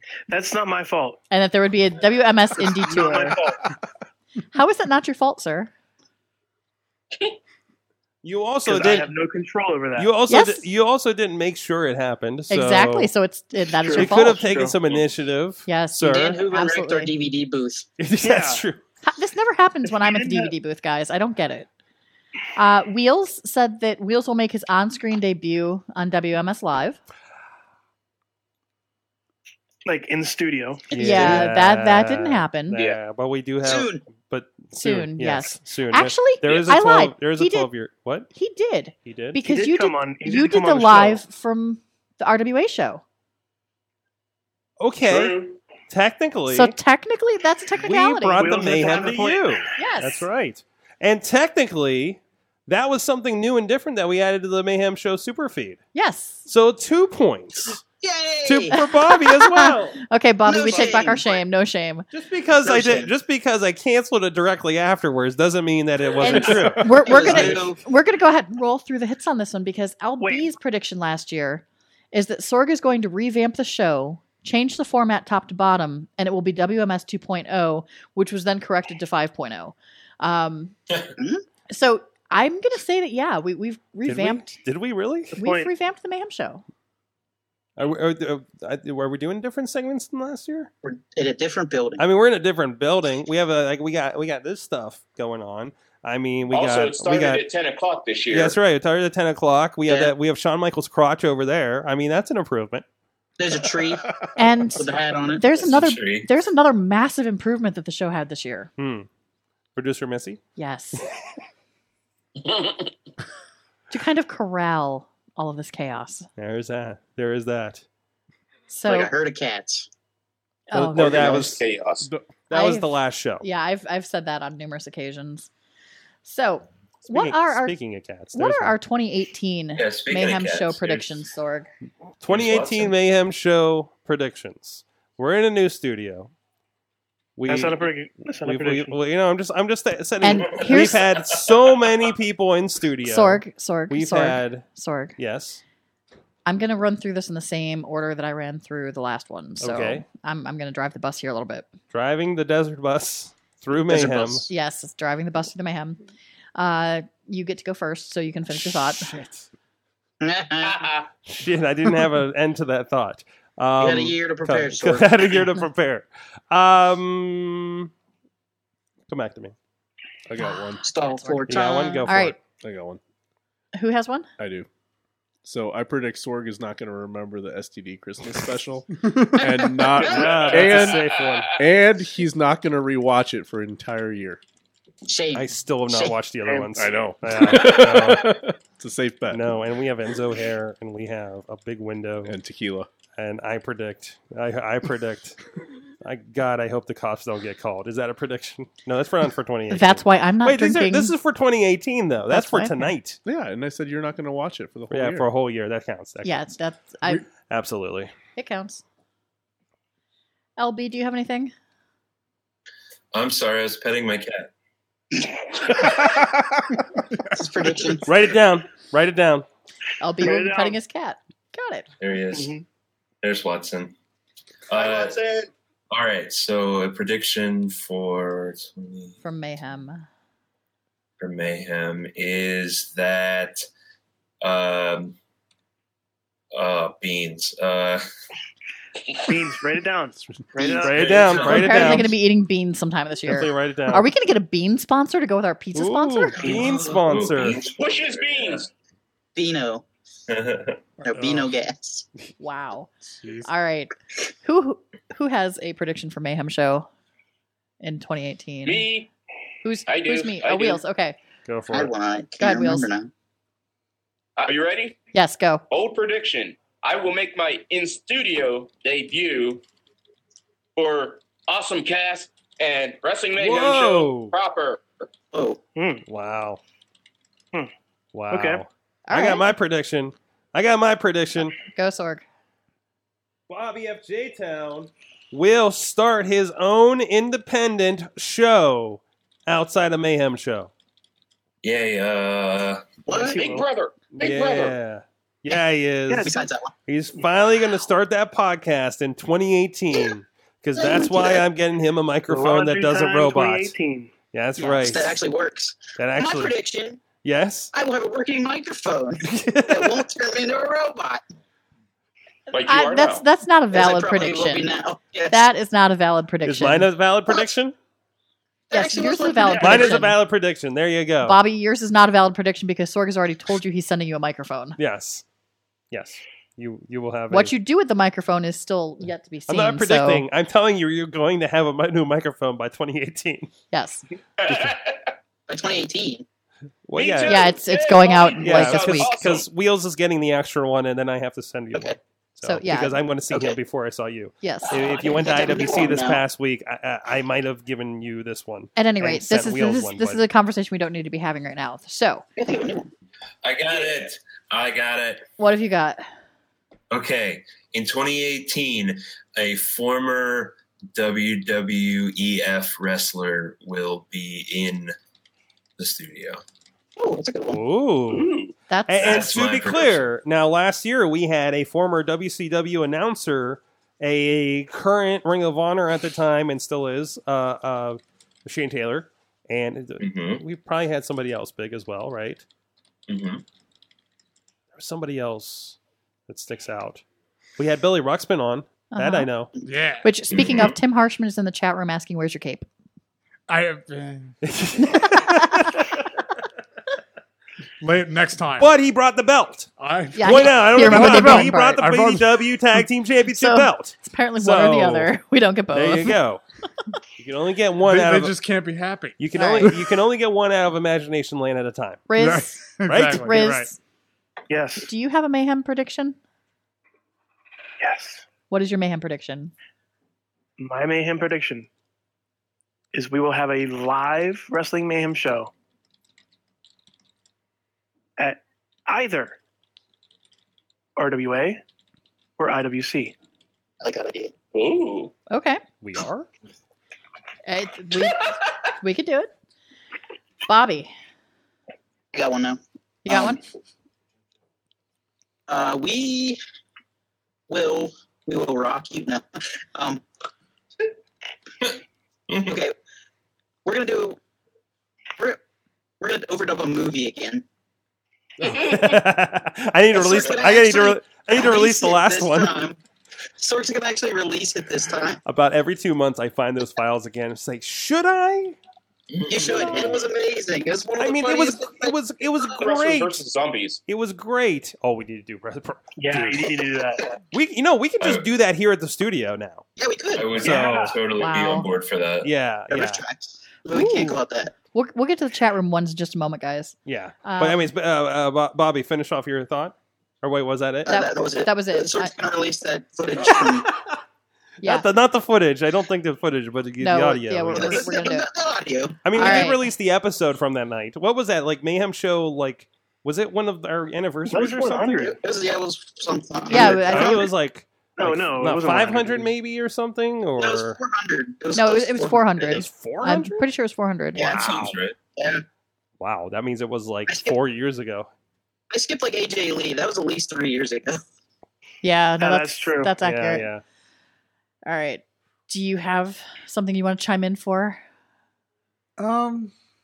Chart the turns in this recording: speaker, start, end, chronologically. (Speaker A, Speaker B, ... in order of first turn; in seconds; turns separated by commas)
Speaker A: 0.3-1.2, Speaker B: 1.3-3.4, Speaker A: 2.6-3.7, Speaker B: 4.5-5.7, Speaker C: 8.2-9.1, Speaker A: 8.7-10.1, Speaker C: 10.0-13.1, Speaker B: 10.3-10.7, Speaker B: 12.5-14.5, Speaker A: 13.8-14.8, Speaker C: 13.9-16.4, Speaker B: 15.7-17.1, Speaker D: 16.0-17.9, Speaker C: 18.0-18.8, Speaker A: 18.2-18.6, Speaker B: 19.0-21.7, Speaker A: 19.9-20.5, Speaker B: 22.6-27.0, Speaker A: 29.9-30.9, Speaker D: 30.9-31.5, Speaker C: 30.9-38.3, Speaker B: 30.9-32.8, Speaker E: 32.7-33.0, Speaker D: 33.6-34.0, Speaker B: 34.7-37.7, Speaker B: 38.3-43.0, Speaker C: 39.0-39.4, Speaker A: 39.5-41.2, Speaker C: 44.8-45.4, Speaker E: 45.0-45.6, Speaker C: 45.9-46.8, Speaker B: 46.5-48.7, Speaker C: 47.8-55.8, Speaker A: 48.4-49.7, Speaker B: 49.8-50.3, Speaker B: 55.9-56.5, Speaker C: 56.5-57.8, Speaker D: 58.0-58.8, Speaker C: 58.4-60.0, Speaker B: 58.7-62.1, Speaker D: 60.4-61.4, Speaker C: 60.7-61.0, Speaker C: 62.1-67.6, Speaker D: 62.6-63.1, Speaker B: 66.2-80.8, Speaker F: 66.6-67.0, Speaker D: 67.0-67.8, Speaker A: 70.2-70.5, Speaker D: 81.2-81.4, Speaker B: 81.7-84.6, Speaker C: 84.0-85.3, Speaker B: 85.3-86.6, Speaker A: 85.4-85.7, Speaker C: 87.8-90.7, Speaker D: 90.8-92.0, Speaker C: 92.0-97.4, Speaker E: 96.5-98.6, Speaker C: 98.3-102.8, Speaker D: 99.9-100.1, Speaker D: 103.4-105.5, Speaker B: 104.4-108.7, Speaker G: 105.6-106.3, Speaker C: 108.8-109.1, Speaker C: 109.8-110.4, Speaker B: 110.6-111.1, Speaker B: 113.9-116.3, Speaker C: 116.4-117.8, Speaker B: 118.7-119.1, Speaker D: 118.9-119.9, Speaker B: 120.7-121.5, Speaker C: 120.7-121.6, Speaker E: 120.9-122.1, Speaker D: 121.1-121.6, Speaker C: 122.5-123.5, Speaker B: 122.5-125.5, Speaker B: 126.2-127.8, Speaker C: 127.0-128.8, Speaker B: 128.3-131.7, Speaker G: 129.8-131.1, Speaker C: 132.2-136.3, Speaker G: 132.3-132.9, Speaker C: 137.4-137.8, Speaker A: 137.5-139.0, Speaker C: 138.4-144.7, Speaker B: 140.2-141.1, Speaker B: 143.0-145.2, Speaker C: 145.2-145.6, Speaker B: 146.4-151.7, Speaker C: 149.6-150.1, Speaker C: 151.9-154.5, Speaker G: 154.1-154.4, Speaker B: 154.5-156.0, Speaker B: 156.6-159.1, Speaker C: 158.5-159.5, Speaker D: 160.2-160.9, Speaker E: 160.6-161.1, Speaker C: 161.3-167.9, Speaker D: 163.8-165.5, Speaker C: 169.1-169.6, Speaker F: 170.3-170.8, Speaker B: 170.4-172.4, Speaker D: 170.8-172.1, Speaker C: 171.5-172.4, Speaker F: 172.6-173.0, Speaker B: 173.8-174.3, Speaker F: 174.4-174.7, Speaker F: 175.4-184.4, Speaker D: 179.4-180.4, Speaker E: 180.0-181.7, Speaker C: 180.1-181.5, Speaker D: 185.1-186.2, Speaker C: 185.3-188.4, Speaker A: 186.4-186.8, Speaker F: 186.8-189.6, Speaker C: 189.3-192.4, Speaker F: 192.2-192.9, Speaker C: 193.2-195.4, Speaker C: 196.0-203.2, Speaker B: 199.7-201.1, Speaker B: 202.3-202.9, Speaker F: 203.2-205.3, Speaker C: 204.9-206.5, Speaker B: 206.2-207.3, Speaker C: 207.5-208.1, Speaker B: 208.3-208.8, Speaker B: 210.6-211.5, Speaker G: 213.1-214.5, Speaker D: 215.8-216.0, Speaker D: 217.3-218.1, Speaker C: 218.1-219.5, Speaker B: 220.0-221.9, Speaker A: 220.2-220.8, Speaker G: 222.0-222.6, Speaker A: 222.3-222.6, Speaker G: 223.2-223.9, Speaker G: 224.7-225.2, Speaker E: 224.7-225.5, Speaker G: 225.9-229.2, Speaker B: 229.2-230.1, Speaker G: 231.2-233.6, Speaker G: 234.4-235.2, Speaker G: 236.5-238.0, Speaker A: 239.2-241.1, Speaker C: 240.8-242.1, Speaker G: 240.8-242.1, Speaker B: 241.4-246.5, Speaker C: 243.3-244.1, Speaker C: 245.7-247.6, Speaker D: 246.4-247.0, Speaker G: 246.4-248.7, Speaker E: 247.6-248.7, Speaker D: 249.4-249.8, Speaker G: 250.3-250.8, Speaker D: 251.0-252.1, Speaker H: 251.1-251.5, Speaker B: 252.4-252.9, Speaker H: 253.2-253.5, Speaker B: 253.4-253.9, Speaker B: 254.4-256.9, Speaker B: 257.8-258.9, Speaker E: 258.6-259.1, Speaker B: 259.6-261.2, Speaker E: 259.9-260.8, Speaker C: 261.5-261.9, Speaker D: 261.7-263.1, Speaker B: 262.4-262.9, Speaker E: 264.4-265.0, Speaker B: 265.1-265.6, Speaker E: 265.7-269.6, Speaker E: 270.8-274.8, Speaker C: 273.4-274.4, Speaker D: 275.3-275.6, Speaker A: 275.8-276.1, Speaker C: 276.1-276.6, Speaker C: 278.1-281.6, Speaker A: 278.3-278.6, Speaker B: 279.1-279.5, Speaker B: 281.6-282.2, Speaker C: 283.5-290.7, Speaker G: 291.6-293.0, Speaker D: 293.1-293.6, Speaker E: 293.1-294.8, Speaker C: 294.1-296.3, Speaker A: 296.1-296.3, Speaker D: 296.2-296.7, Speaker C: 296.9-303.7, Speaker D: 300.8-301.4, Speaker A: 302.3-304.1, Speaker C: 304.3-305.2, Speaker D: 304.6-307.0, Speaker C: 306.0-306.6, Speaker C: 307.2-307.7, Speaker D: 307.7-311.2, Speaker C: 309.3-310.0, Speaker E: 312.5-313.2, Speaker B: 312.6-314.7, Speaker D: 313.7-315.5, Speaker B: 315.3-316.9, Speaker C: 316.4-317.7, Speaker D: 318.7-319.9, Speaker B: 318.7-320.2, Speaker C: 319.6-321.4, Speaker B: 321.2-324.8, Speaker C: 324.8-325.2, Speaker C: 325.9-327.5, Speaker B: 327.3-330.3, Speaker C: 329.5-333.5, Speaker B: 333.7-334.1, Speaker E: 334.4-335.1, Speaker F: 334.5-334.8, Speaker D: 335.5-336.2, Speaker C: 336.9-337.6, Speaker E: 337.0-339.5, Speaker B: 337.2-339.1, Speaker C: 338.4-350.2, Speaker B: 342.4-343.1, Speaker D: 343.3-343.6, Speaker B: 344.4-345.1, Speaker D: 344.7-346.2, Speaker B: 348.8-352.2, Speaker D: 352.4-352.9, Speaker G: 353.4-355.3, Speaker B: 355.4-356.0, Speaker G: 356.9-364.9, Speaker G: 365.8-366.4, Speaker D: 367.0-367.6, Speaker C: 367.5-368.3, Speaker E: 368.1-368.5, Speaker B: 368.7-369.4, Speaker C: 368.9-382.4, Speaker G: 369.0-370.1, Speaker G: 380.0-380.4, Speaker G: 383.1-383.4, Speaker C: 384.8-385.8, Speaker C: 386.3-387.0, Speaker C: 387.6-389.5, Speaker B: 388.9-389.3, Speaker H: 389.6-390.1, Speaker B: 390.0-392.7, Speaker G: 390.3-390.8, Speaker H: 393.5-394.4, Speaker C: 394.4-395.9, Speaker B: 395.0-395.7, Speaker H: 397.8-398.7, Speaker C: 398.6-399.7, Speaker H: 399.8-402.8, Speaker B: 400.1-401.8, Speaker C: 400.2-405.1, Speaker B: 403.3-406.2, Speaker C: 405.7-406.4, Speaker C: 407.2-408.4, Speaker H: 407.9-409.8, Speaker C: 409.2-412.0, Speaker B: 409.3-409.8, Speaker B: 412.1-413.8, Speaker H: 412.2-413.7, Speaker C: 412.9-413.6, Speaker A: 414.5-414.9, Speaker B: 414.8-416.2, Speaker A: 417.8-418.2, Speaker B: 418.5-419.5, Speaker A: 420.6-421.7, Speaker A: 422.9-425.5, Speaker A: 428.2-429.4, Speaker A: 431.0-431.6, Speaker A: 432.4-433.1, Speaker D: 433.8-434.3, Speaker E: 434.5-435.1, Speaker B: 435.3-435.6, Speaker C: 435.8-436.3, Speaker B: 437.5-439.3, Speaker B: 440.5-440.9, Speaker D: 442.1-443.4, Speaker B: 443.1-443.4, Speaker D: 445.5-446.4, Speaker D: 447.5-450.0, Speaker G: 452.3-452.6, Speaker D: 452.4-452.7, Speaker D: 453.6-454.2, Speaker D: 456.0-457.4, Speaker C: 458.4-462.5, Speaker D: 459.9-462.8, Speaker D: 463.4-465.2, Speaker C: 465.3-468.6, Speaker G: 469.1-470.1, Speaker D: 469.3-471.9, Speaker C: 469.5-469.9, Speaker C: 471.0-473.2, Speaker E: 472.5-473.8, Speaker C: 473.9-476.5, Speaker A: 476.0-477.1, Speaker C: 477.3-479.6, Speaker G: 478.0-478.3, Speaker D: 479.8-480.4, Speaker G: 480.1-482.3, Speaker C: 480.4-480.9, Speaker B: 480.4-481.7, Speaker A: 480.5-481.0, Speaker C: 482.2-483.0, Speaker D: 482.7-484.5, Speaker B: 483.7-484.2, Speaker B: 484.7-487.7, Speaker C: 486.9-490.9, Speaker D: 490.9-493.7, Speaker B: 490.9-492.1, Speaker B: 494.6-494.9, Speaker C: 494.6-497.9, Speaker B: 496.8-498.3, Speaker D: 497.5-499.5, Speaker C: 499.1-505.0, Speaker B: 499.1-499.7, Speaker A: 504.3-505.2, Speaker D: 505.0-507.2, Speaker B: 506.5-507.3, Speaker C: 506.5-510.8, Speaker A: 508.0-509.3, Speaker D: 510.4-512.6, Speaker B: 511.6-514.4, Speaker C: 512.5-513.5, Speaker G: 514.2-515.0, Speaker D: 514.2-515.4, Speaker C: 516.0-518.1, Speaker D: 517.1-517.4, Speaker D: 518.7-521.0, Speaker B: 521.8-523.5, Speaker A: 522.2-523.0, Speaker C: 523.0-523.6, Speaker B: 524.7-527.8, Speaker H: 529.0-529.5